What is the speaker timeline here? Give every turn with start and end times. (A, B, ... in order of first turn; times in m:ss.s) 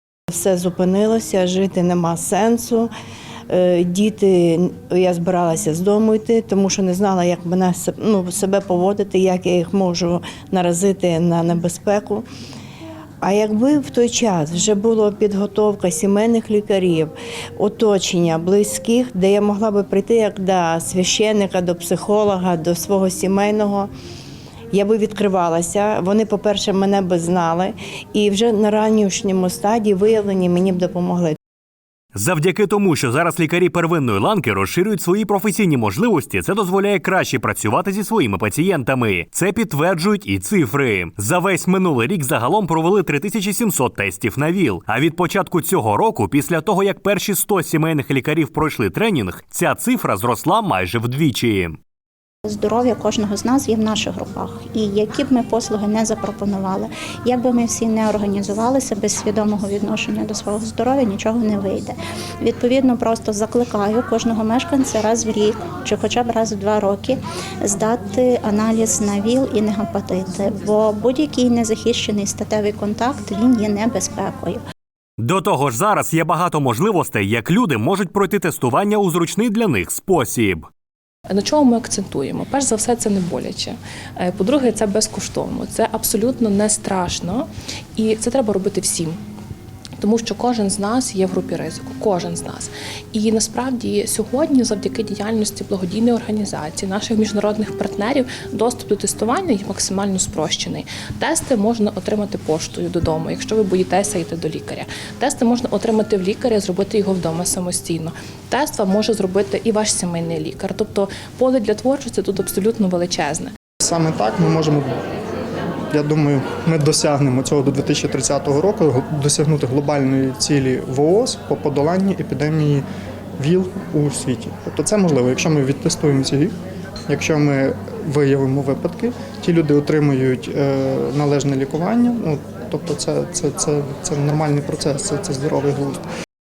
0:00.3-0:02.9 A
0:03.5-0:12.3 A
0:13.2-0:23.9 A
0:24.7-0:31.4 A
0:32.1-0:51.8 B
0:52.4-1:14.6 C
1:15.2-1:20.7 B
1:21.3-1:29.2 D
1:30.0-1:53.5 D
1:53.8-1:54.9 E
1:55.9-2:02.8 E
2:03.4-2:06.5 E
2:07.1-2:16.0 E